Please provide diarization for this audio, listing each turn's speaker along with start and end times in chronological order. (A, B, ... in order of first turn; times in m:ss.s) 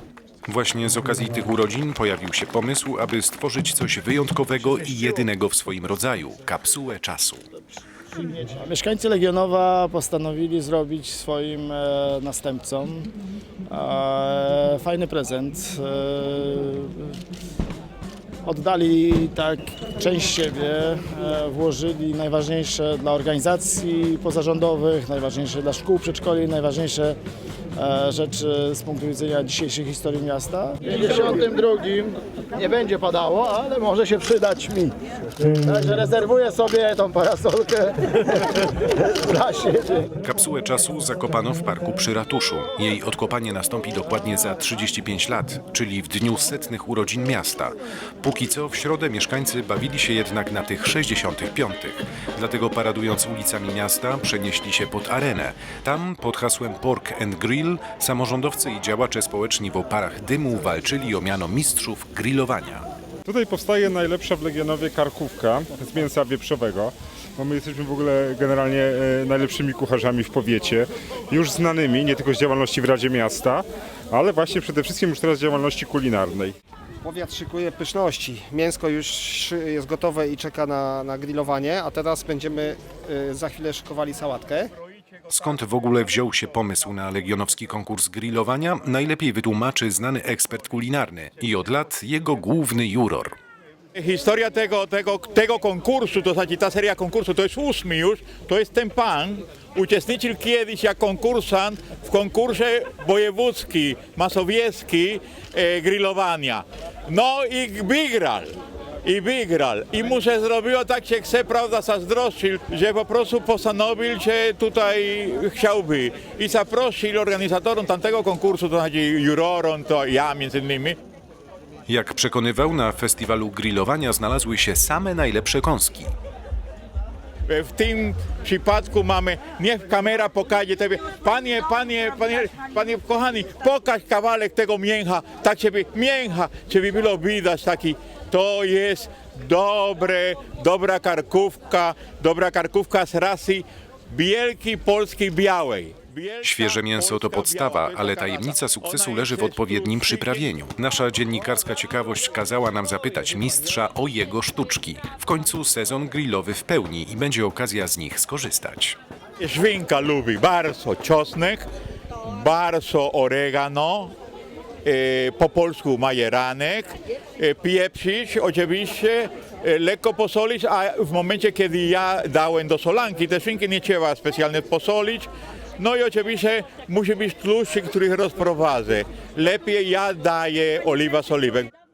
0:00.5-0:07.4 A
0:08.2-0:13.1 B
0:13.7-0:17.2 B
0:18.4-0:27.2 B
0:27.8-0:40.2 B
0:40.2-1:02.9 A
1:03.3-1:16.6 C
1:17.0-1:24.7 D
1:25.3-1:33.4 A
1:34.0-2:01.0 E
2:01.9-2:06.1 A
2:07.5-2:30.5 E
2:26.4-2:39.0 A
2:39.4-2:41.7 E
2:42.2-2:44.1 E
2:44.8-3:01.7 E